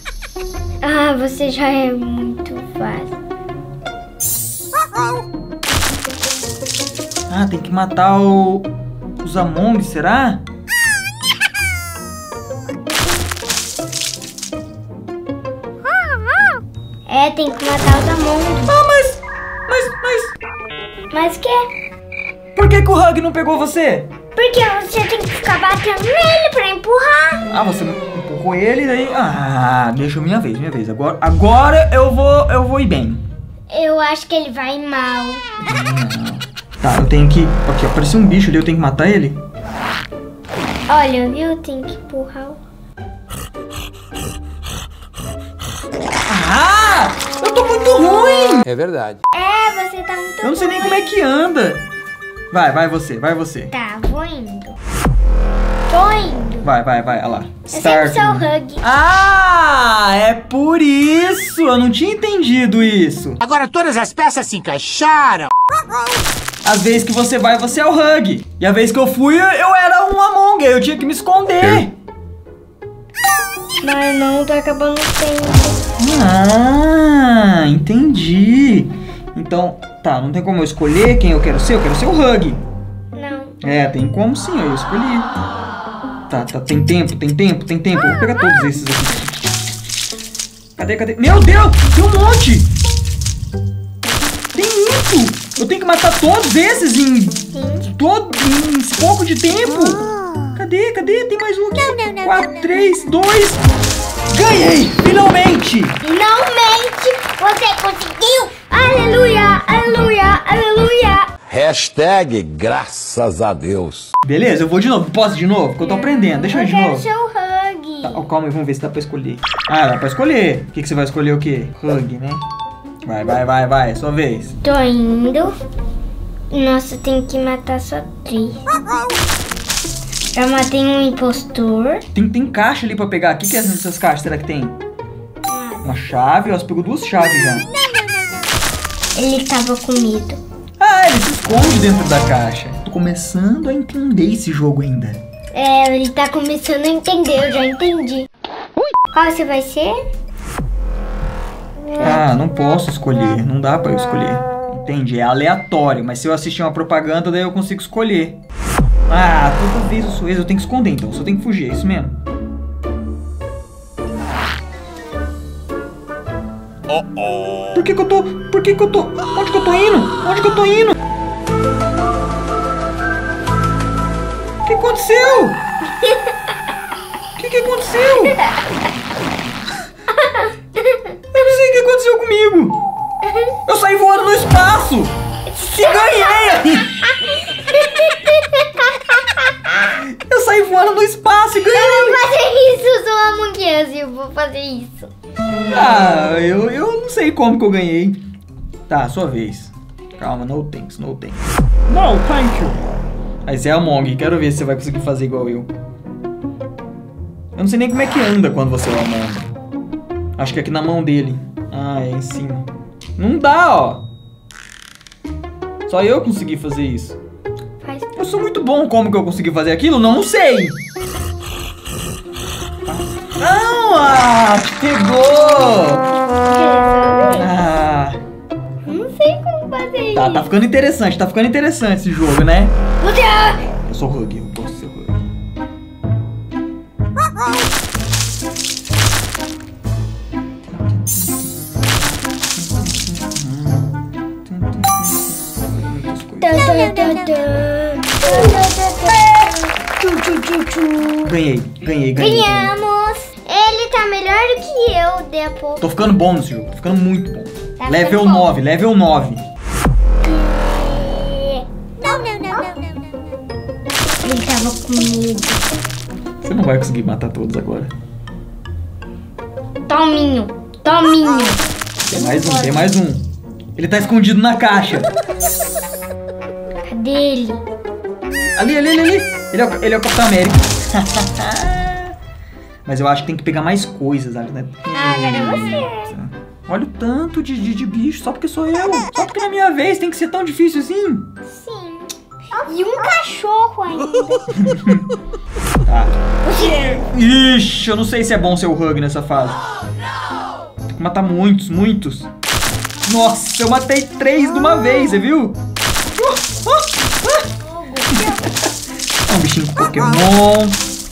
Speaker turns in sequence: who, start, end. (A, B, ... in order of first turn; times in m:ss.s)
0:00.8-0:03.2 A
0:07.3-0:08.7 B
0:09.2-0:10.4 B
0:17.1-0:18.7 A
0:18.6-0:20.4 B
0:21.1-0:21.7 A
0:22.6-0:24.1 B
0:24.4-0:27.5 A
0:27.5-0:33.2 B
0:33.7-0:35.4 A
0:35.6-0:39.4 B
0:40.9-0:42.6 A
0:46.3-0:48.6 B
0:49.3-0:51.2 A
0:50.4-0:51.8 B
0:52.5-0:53.7 B
0:53.7-0:54.8 A
0:55.9-0:56.7 A
0:56.6-1:03.4 B
0:57.7-0:58.8 A
1:03.4-1:05.5 C
1:06.6-1:11.9 B
1:13.8-1:15.8 A
1:16.0-1:22.6 B
1:23.1-1:23.6 A
1:23.6-1:25.3 B
1:26.3-1:29.6 B
1:30.8-1:32.7 B
1:34.5-1:43.6 B
1:37.5-1:37.9 A
1:44.3-1:46.0 B
1:46.0-1:51.3 A
1:51.5-1:54.1 D
1:54.3-1:57.0 B
1:55.9-1:58.3 A
1:58.0-2:02.4 B
2:03.0-2:04.6 B
2:04.6-2:05.6 A
2:06.5-2:08.6 A
2:10.3-2:12.0 A
2:12.1-2:14.8 B
2:15.5-2:15.9 A
2:15.8-2:17.7 B
2:19.2-2:20.4 A
2:20.8-2:25.2 B
2:25.5-2:28.3 A
2:29.1-2:30.0 A
2:32.0-2:32.2 A
2:32.0-2:38.4 B
2:39.1-2:42.2 B
2:47.7-2:51.0 B
2:54.6-2:55.6 B
2:57.4-2:58.4 B
3:00.2-3:01.2 A
3:01.3-3:02.8 B
3:03.2-3:03.5 A
3:03.7-3:07.0 B
3:05.5-3:09.2 A
3:09.8-3:12.2 B
3:11.6-3:15.1 A
3:15.7-3:18.2 B
3:18.9-3:22.8 B
3:23.5-3:25.7 B
3:27.6-3:29.5 B
3:30.4-3:32.7 B
3:33.2-3:34.0 B
3:35.9-3:37.2 B
3:37.8-3:38.2 A
3:38.2-3:40.8 B
3:42.9-3:46.0 B
3:46.1-3:47.5 A
3:47.3-3:48.2 B
3:48.8-3:50.5 A
3:50.2-3:52.8 B
3:53.0-3:53.7 A
3:53.9-3:55.3 B
4:00.6-4:02.0 B
4:02.6-4:06.7 B
4:06.4-4:11.4 A
4:11.2-4:12.7 B
4:12.2-4:15.9 A
4:15.8-4:19.4 B
4:17.8-4:18.5 A
4:20.2-4:22.7 A
4:24.2-4:25.7 A
4:26.4-4:27.9 B
4:29.9-4:33.0 A
4:32.0-4:35.1 B
4:36.9-4:37.6 A
4:38.6-4:42.1 B
4:42.9-4:51.3 B
4:44.9-4:46.2 A
4:51.5-4:54.5 A
4:54.6-4:55.1 B
4:55.9-4:56.1 B
4:56.4-4:57.0 A
4:57.1-4:59.6 B
5:01.0-5:02.3 B
5:03.1-5:05.6 B
5:06.2-5:07.4 B
5:07.6-5:08.5 A
5:08.1-5:08.5 B
5:09.3-5:10.8 B